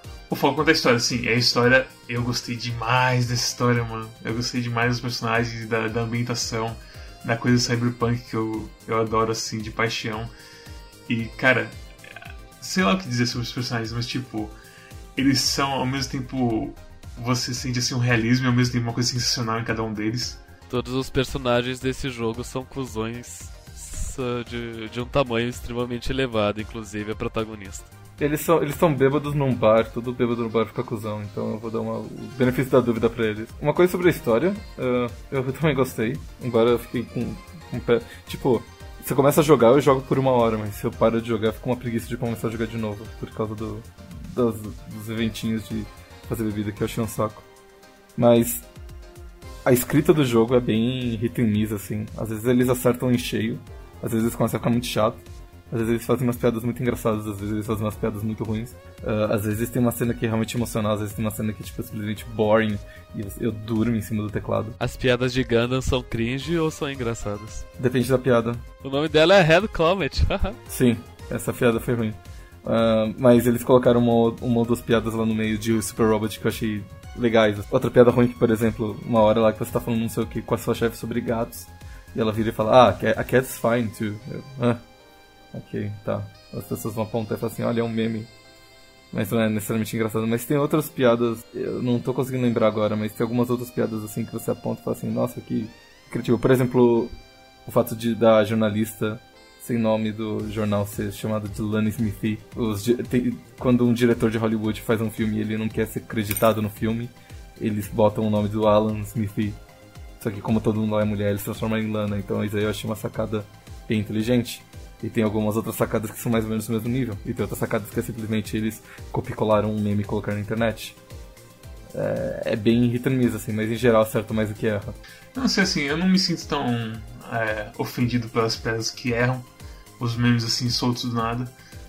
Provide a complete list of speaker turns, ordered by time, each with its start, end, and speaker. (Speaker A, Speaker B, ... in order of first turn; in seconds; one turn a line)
Speaker A: 0.3-10.3
Speaker A: 11.1-11.8
Speaker A: 12.6-14.6
Speaker A: 15.2-20.4
Speaker B: 20.7-27.9
Speaker C: 28.2-47.5
Speaker C: 48.2-48.6
Speaker C: 49.6-64.8
Speaker B: 64.8-67.7
Speaker C: 67.8-68.6
Speaker B: 68.8-70.6
Speaker C: 70.7-84.8
Speaker C: 85.5-88.3
Speaker C: 89.1-97.2
Speaker C: 97.7-109.6
Speaker C: 110.2-121.0
Speaker C: 121.9-125.0
Speaker A: 125.3-129.5
Speaker A: 130.0-131.5